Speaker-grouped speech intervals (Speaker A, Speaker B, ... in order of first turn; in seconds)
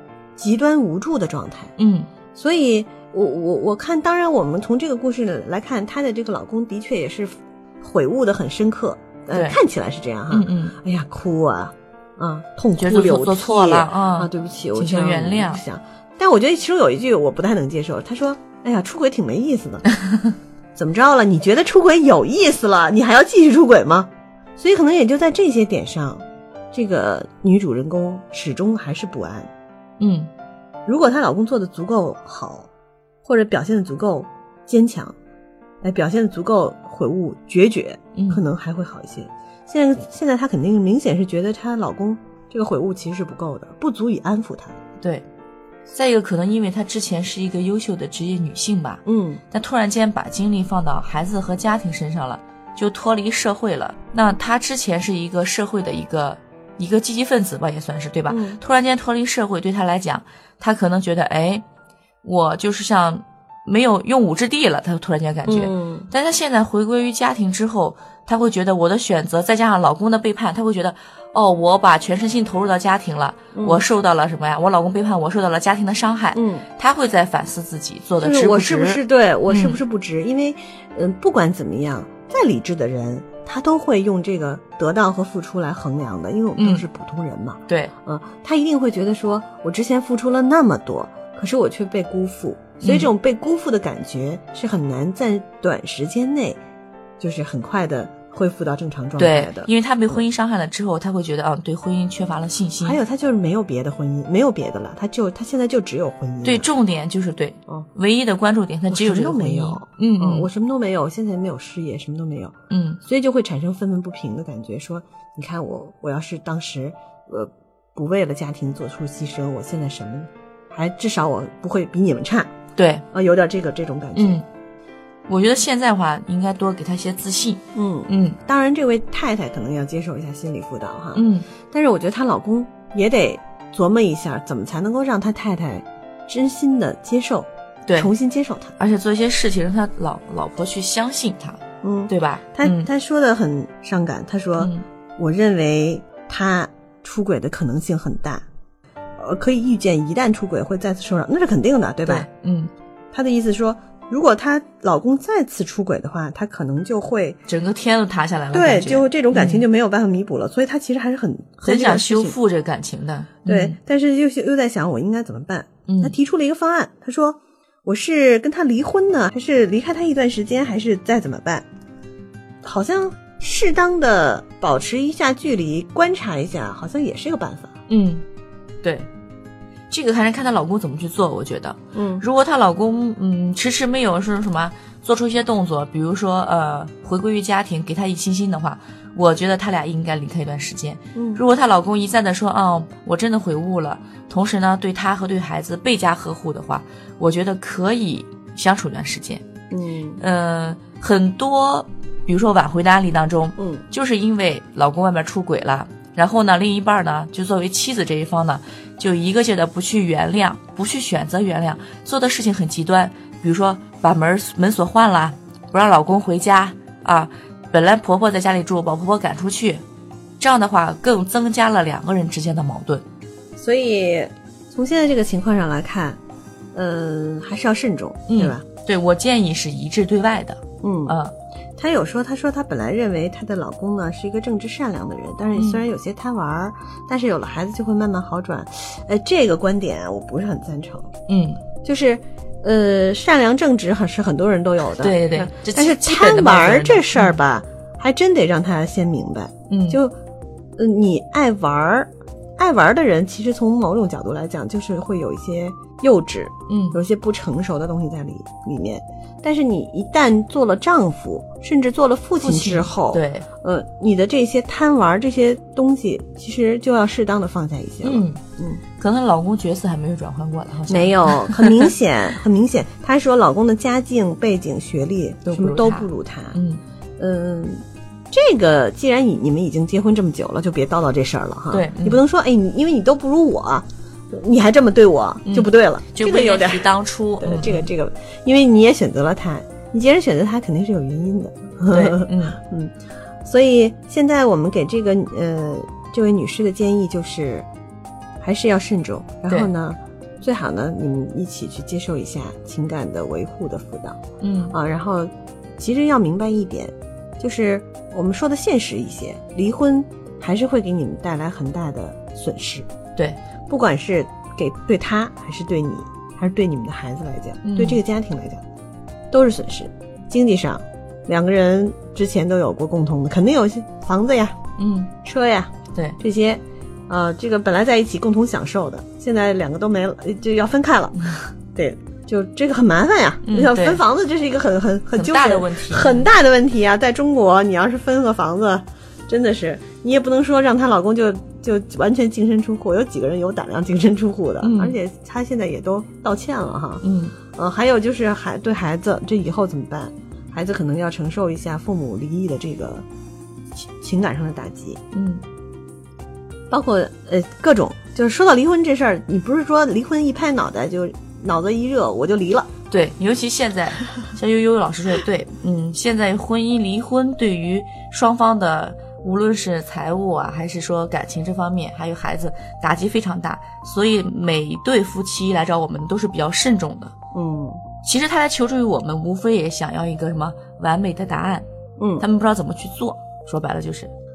Speaker A: 0.4-1.7, 2.4-19.9, 20.8-29.5, 30.9-32.7, 33.2-35.1, 35.8-44.8, 49.1-49.4, 58.3-58.6, 65.5-66.1, 73.5-73.8, 76.3-76.7, 78.2-96.6, 97.2-100.2, 102.8-106.7, 108.9-122.5, 123.1-124.4, 127.7-138.7, 141.8-148.4, 149.2-152.3, 153.1-157.4, 158.5-162.4, 163.5-171.7, 172.6-177.7, 181.9-182.2, 191.2-191.4, 199.7-200.2, 203.6-203.8, 223.6-226.2, 226.7-228.7, 230.8-231.2, 231.8-241.1, 241.8-250.1, 250.8-268.8, 270.9-276.6, 277.2-286.9, 287.4-292.9, 293.4-297.7, 298.4-304.2, 304.7-312.9, 313.7-318.6, 319.3-324.6, 325.2-353.1, 354.0-355.0, 356.7-362.7, 377.3-377.8, 382.0-382.2
Speaker B: 1.8-2.1, 9.3-9.6, 10.3-10.8, 12.8-15.6, 30.0-30.3, 38.2-38.4, 45.0-45.2, 45.9-61.6, 62.2-79.8, 86.6-86.8, 92.8-93.1, 99.2-103.0, 106.4-110.5, 112.7-113.0, 122.8-123.0, 124.2-124.5, 125.3-128.4, 131.2-131.5, 138.8-142.9, 144.6-144.9, 152.1-152.7, 157.5-159.7, 161.7-163.8, 165.9-166.2, 177.9-178.2, 178.8-179.1, 179.9-199.4, 200.2-219.8, 220.4-223.1, 228.3-231.3, 235.6-235.8, 241.3-241.6, 245.0-247.3, 249.7-250.0, 256.7-257.0, 262.4-263.4, 268.0-268.4, 269.0-271.8, 275.5-276.8, 281.7-282.2, 285.5-287.9, 291.9-292.6, 304.4-304.8, 317.6-318.0, 324.8-325.1, 333.4-334.0, 335.1-336.3, 344.6-345.0, 347.0-347.4, 355.1-355.4, 362.9-377.1, 378.0-381.6, 382.2-384.1